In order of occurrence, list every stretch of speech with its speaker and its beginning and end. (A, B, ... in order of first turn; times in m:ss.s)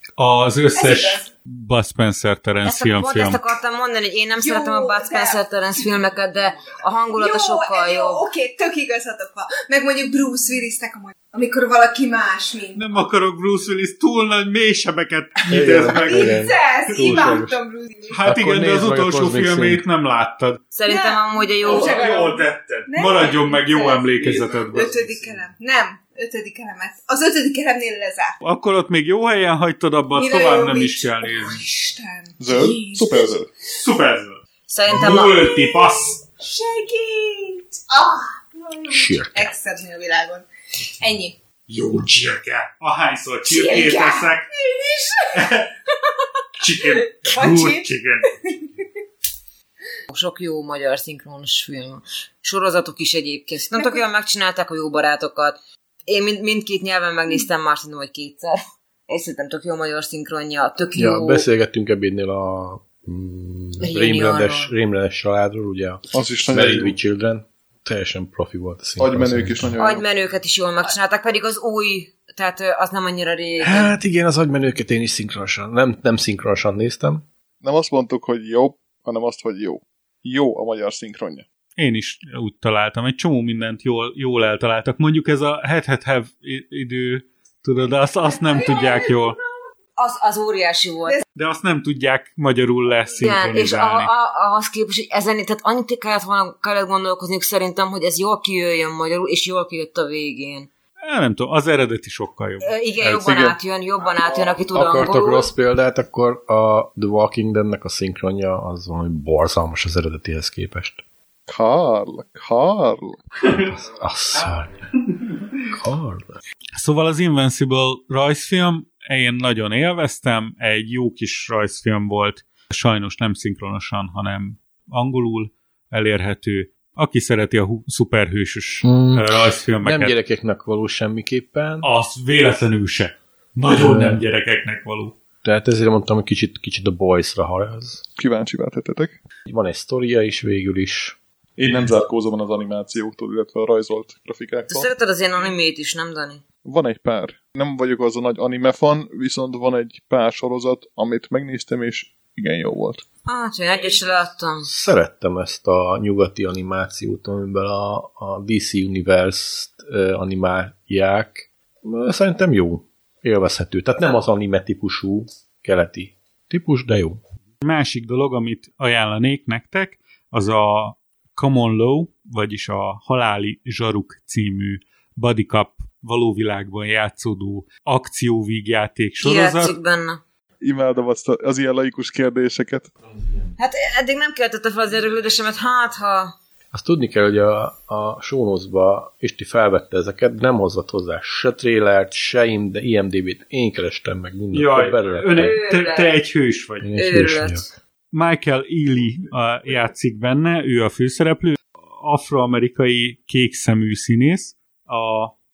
0:00.2-0:03.4 A
0:00.7-0:01.3 B
0:02.6-0:08.2 C
0:04.4-0:05.9 B
0:07.1-0:12.8 B
0:12.7-0:17.4 A
0:15.5-0:17.6 D
0:15.9-0:18.2 B
0:18.1-0:20.6 A
0:18.2-0:19.8 D
0:20.7-0:22.2 C
0:20.8-0:28.4 B
0:21.6-0:25.3 A
0:28.4-0:31.6 A
0:30.1-0:33.3 B
0:32.4-0:33.5 E
0:33.7-0:36.2 A
0:34.7-0:35.5 C
0:35.1-0:40.4 B
0:38.9-0:39.5 D
0:41.0-0:41.4 B
0:41.7-0:44.5 A
0:43.4-0:45.4 B
0:45.3-0:45.7 A
0:46.6-0:48.3 A
0:47.0-0:48.6 B
0:50.1-1:01.4 C
0:53.7-0:54.0 B
1:00.9-1:09.7 D
1:03.8-1:04.7 C
1:06.1-1:06.9 E
1:09.0-1:10.0 E
1:09.8-1:13.9 C
1:13.6-1:17.2 D
1:17.6-1:21.4 E
1:21.8-1:29.4 A
1:28.5-1:29.3 B
1:30.0-1:31.2 C
1:31.3-1:34.1 A
1:33.2-1:40.7 C
1:41.0-1:43.1 A
1:42.6-1:45.5 C
1:43.1-1:43.5 E
1:44.7-1:51.0 D
1:51.5-1:53.2 E
1:53.7-1:54.9 D
1:55.7-1:56.4 D
1:56.8-2:10.1 A
2:08.8-2:11.9 D
2:11.8-2:15.2 A
2:13.7-2:14.2 D
2:15.4-2:18.0 D
2:18.2-2:19.1 E
2:19.5-2:21.2 D
2:21.6-2:24.9 E
2:24.7-2:26.4 C
2:26.6-2:33.0 E
2:33.2-2:34.7 C
2:34.6-2:47.2 D
2:47.6-2:59.7 A
2:59.2-3:00.2 C
3:00.6-3:02.9 E
3:03.6-3:06.3 C
3:06.7-3:15.6 D
3:14.5-3:16.9 A
3:15.3-3:16.1 C
3:16.8-3:17.7 D
3:16.9-3:17.6 C
3:18.1-3:25.3 A